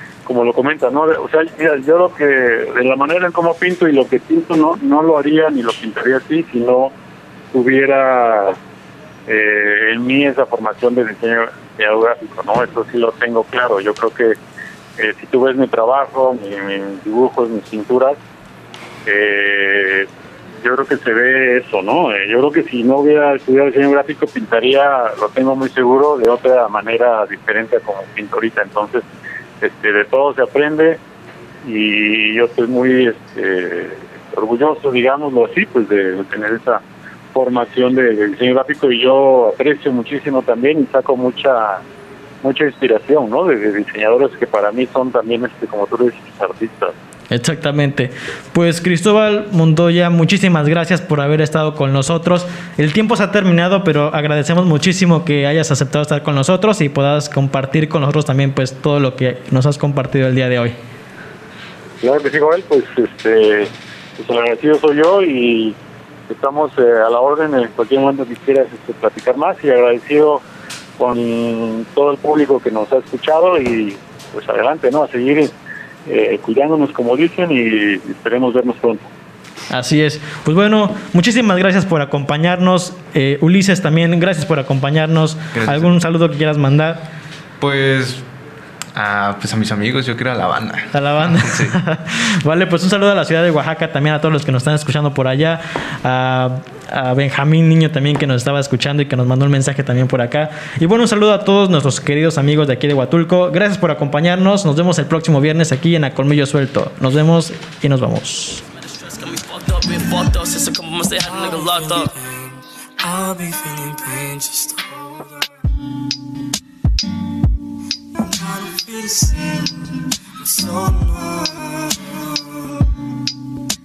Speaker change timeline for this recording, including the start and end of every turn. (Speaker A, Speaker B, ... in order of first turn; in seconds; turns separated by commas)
Speaker A: 0.2-6.9, Speaker A: 7.5-8.6, Speaker A: 9.3-14.4, Speaker A: 15.0-18.2, Speaker A: 19.1-20.1, Speaker A: 20.6-29.0, Speaker A: 29.6-31.0, Speaker A: 31.6-36.8, Speaker A: 37.3-41.8, Speaker A: 42.4-46.9, Speaker B: 47.3-60.8, Speaker A: 62.0-65.8, Speaker A: 66.3-70.4, Speaker A: 71.0-75.5, Speaker A: 76.0-79.1, Speaker B: 79.7-87.0, Speaker C: 85.5-85.9, Speaker C: 87.6-88.2, Speaker C: 88.9-91.8, Speaker B: 90.9-108.6, Speaker D: 109.1-115.4, Speaker D: 118.2-122.2